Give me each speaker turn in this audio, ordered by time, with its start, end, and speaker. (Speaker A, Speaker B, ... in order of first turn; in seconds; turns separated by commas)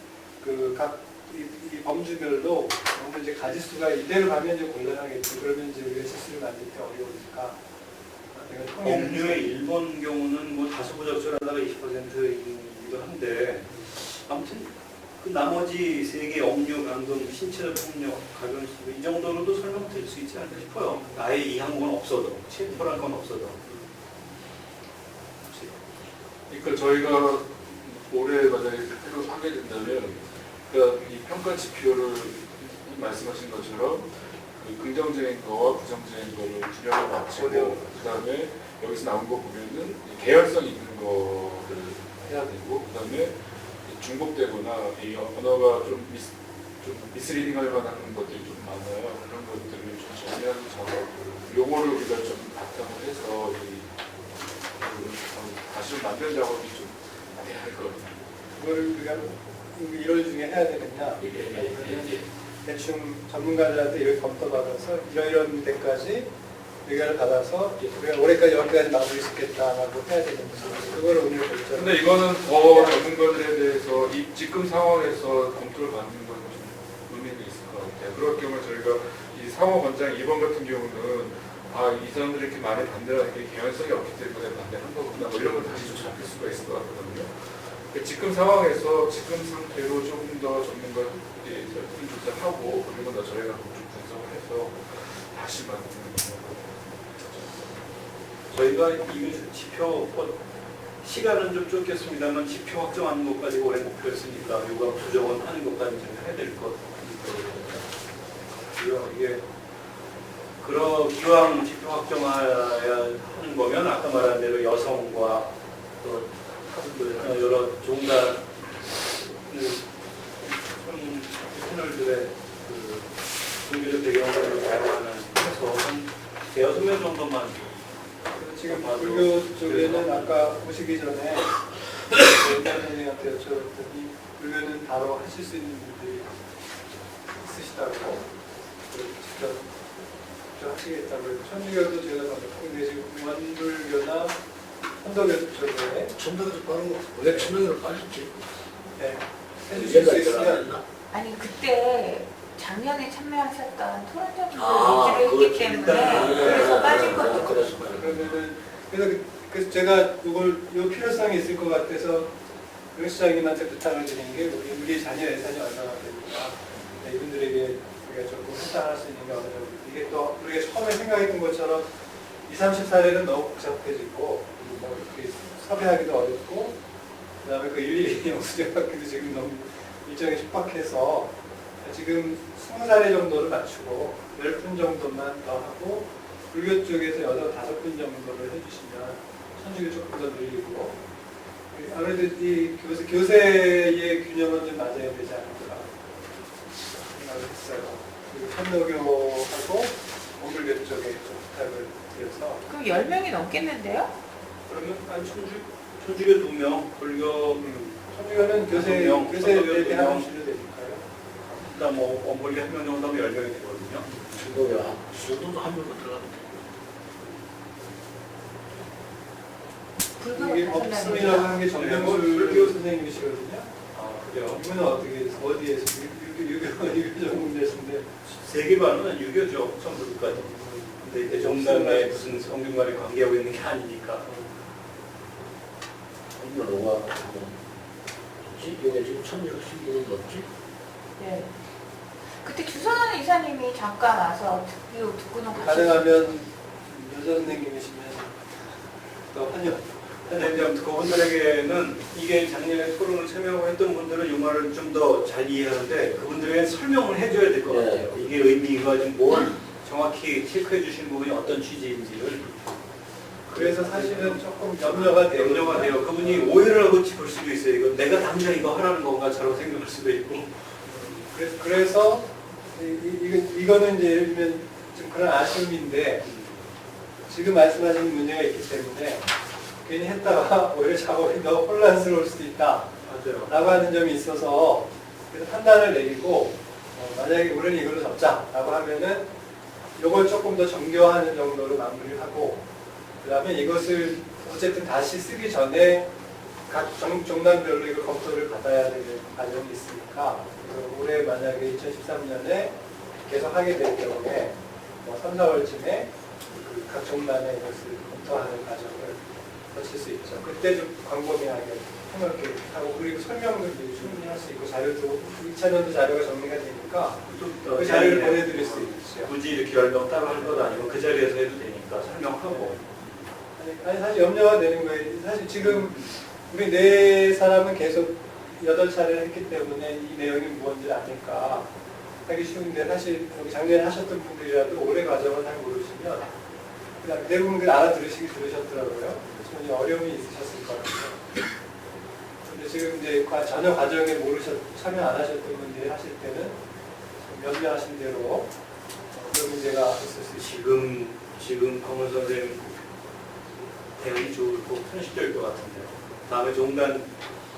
Speaker A: 0.4-7.6, Speaker A: 8.3-9.5, Speaker B: 8.8-23.6, Speaker A: 20.9-21.2, Speaker A: 23.7-23.9, Speaker C: 26.5-53.9, Speaker A: 37.4-38.0, Speaker C: 54.8-58.2, Speaker A: 58.6-66.3, Speaker C: 61.2-62.3, Speaker A: 66.8-73.0, Speaker C: 71.7-97.7, Speaker B: 98.5-100.4, Speaker B: 101.0-107.4, Speaker D: 107.2-107.8, Speaker B: 108.7-109.4, Speaker B: 110.6-115.5, Speaker D: 116.0-117.5, Speaker B: 117.2-118.5, Speaker B: 119.2-119.9, Speaker B: 120.4-127.9, Speaker A: 128.3-131.6, Speaker B: 128.7-130.5, Speaker A: 132.1-136.3, Speaker A: 137.4-138.2, Speaker A: 138.9-139.6, Speaker A: 140.5-144.4, Speaker A: 145.0-146.1, Speaker D: 146.2-148.4, Speaker A: 149.0-150.7, Speaker D: 149.7-150.8, Speaker E: 151.1-157.9, Speaker D: 154.5-158.3, Speaker A: 155.9-156.9, Speaker A: 157.9-162.3, Speaker A: 162.9-171.9, Speaker A: 172.5-176.8, Speaker A: 177.4-191.0, Speaker A: 191.7-195.9, Speaker A: 197.1-202.6, Speaker E: 202.7-204.1, Speaker B: 204.7-207.6, Speaker A: 207.6-211.0, Speaker B: 208.7-210.3, Speaker B: 211.5-214.1, Speaker D: 214.3-216.7, Speaker E: 220.2-221.7, Speaker A: 220.3-223.7, Speaker B: 221.7-222.8, Speaker B: 223.9-224.6, Speaker A: 224.5-228.1, Speaker B: 228.3-234.3, Speaker A: 230.3-232.4, Speaker A: 234.2-234.5, Speaker D: 236.3-237.6, Speaker D: 238.4-240.5, Speaker E: 241.2-241.5, Speaker E: 242.3-246.2, Speaker A: 245.5-248.5, Speaker A: 249.3-250.4, Speaker B: 250.3-262.7, Speaker D: 257.7-258.2, Speaker A: 263.5-266.5, Speaker B: 263.5-270.6, Speaker A: 270.9-276.3, Speaker B: 276.2-276.6, Speaker A: 277.3-279.3, Speaker A: 279.8-282.9, Speaker B: 283.1-283.5, Speaker A: 283.5-289.3, Speaker A: 290.0-292.6, Speaker A: 293.2-296.1, Speaker A: 296.7-319.3, Speaker B: 317.3-323.2, Speaker A: 320.4-320.8, Speaker A: 322.5-322.8, Speaker A: 323.6-331.7, Speaker B: 325.6-326.1, Speaker A: 332.2-336.3, Speaker A: 337.0-341.4, Speaker A: 342.4-346.6, Speaker A: 347.2-348.5, Speaker A: 349.1-350.6, Speaker B: 350.4-352.9, Speaker B: 354.0-357.1